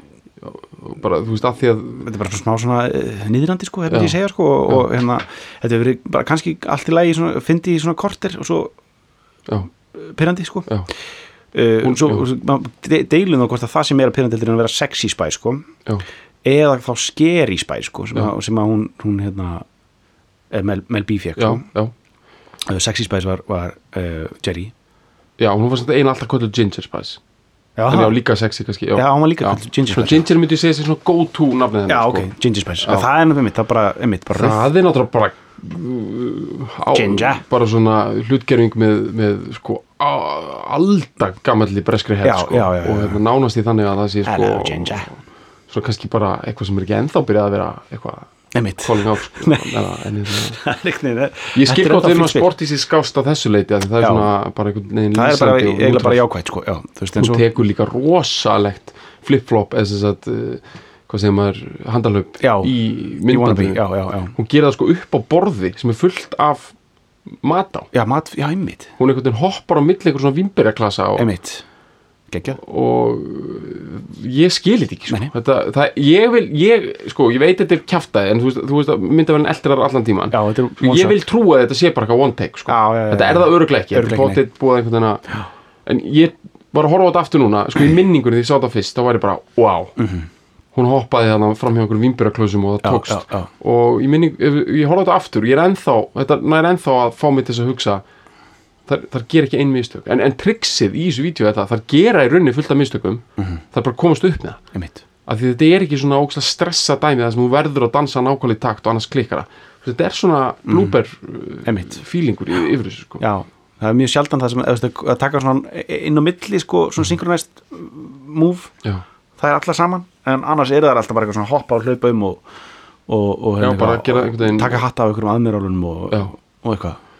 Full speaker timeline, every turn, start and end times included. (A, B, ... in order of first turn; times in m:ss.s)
0:00.4-0:02.1 A
0:02.0-0:08.7 B
0:03.9-0:04.1 A
0:09.9-0:10.7 B
0:11.5-0:15.7 B
0:11.8-0:12.2 A
0:16.4-0:19.6 B
0:20.5-0:21.6 B
0:21.4-0:21.9 A
0:22.6-0:24.7 B
0:25.4-0:27.2 A
0:27.8-0:28.2 B
0:27.9-0:33.1 A
0:28.9-0:30.3 B
0:31.9-0:34.6 B
0:34.3-0:50.6 A
0:36.9-0:37.4 B
0:42.2-0:43.2 B
0:44.2-0:45.1 B
0:48.5-0:52.5 B
0:51.5-0:56.2 A
0:54.0-0:54.3 B
0:55.1-0:57.4 B
0:57.2-1:06.7 A
1:02.4-1:04.3 B
1:07.3-1:07.9 A
1:07.9-1:08.9 B
1:09.0-1:11.3 A
1:11.2-1:11.6 B
1:12.3-1:12.6 B
1:12.6-1:30.0 A
1:20.3-1:21.2 B
1:22.7-1:24.4 B
1:30.0-1:30.3 B
1:30.7-1:38.0 A
1:32.8-1:33.5 B
1:38.9-1:44.6 A
1:44.7-1:45.0 B
1:45.3-1:53.2 A
1:50.7-1:51.0 B
1:51.6-1:52.0 B
1:53.2-1:58.7 B
1:59.4-2:02.4 B
2:03.1-2:07.0 B
2:03.6-2:04.8 A